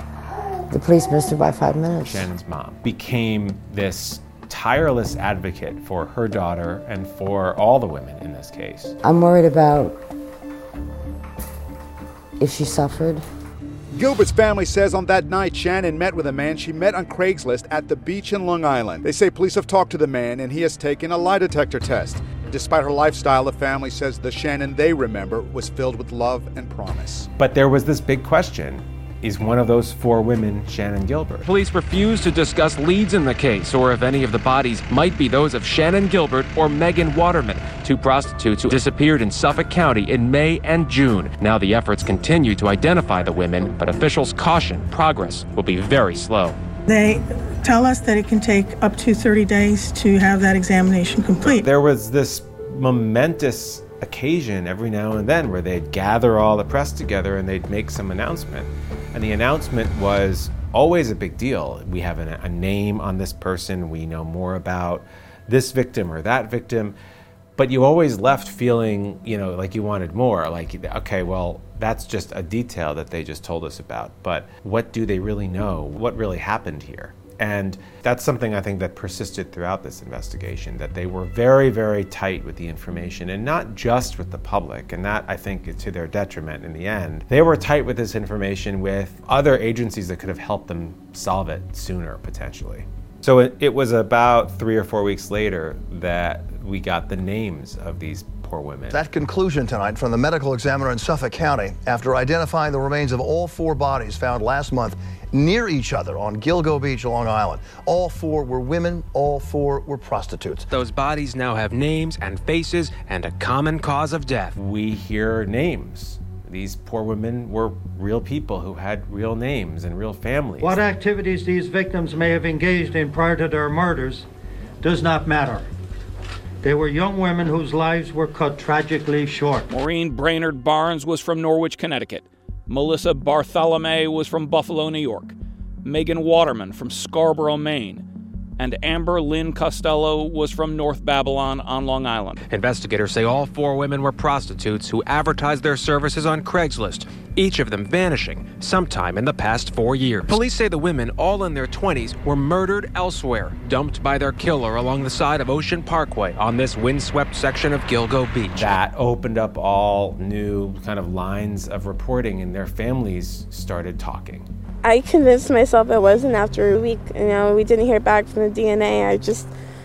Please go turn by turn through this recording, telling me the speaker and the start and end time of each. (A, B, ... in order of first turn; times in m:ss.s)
0:00.7-0:02.3 A
0:02.0-0:08.9 B
0:09.0-0:10.0 A
0:12.4-0:13.2 A
0:13.9-0:27.3 C
0:27.4-0:31.5 B
0:31.4-0:46.6 D
0:46.9-0:51.7 E
0:51.4-1:07.0 B
1:07.6-1:39.0 B
1:38.9-1:50.5 F
1:50.7-1:54.5 D
1:54.5-2:00.8 B
2:00.6-2:04.2 G
2:04.8-2:05.7 G
2:06.6-2:09.6 G
2:09.7-2:18.0 H
2:18.6-2:22.4 H
2:22.5-2:38.7 D
2:38.5-2:44.5 B
2:44.8-2:49.5 I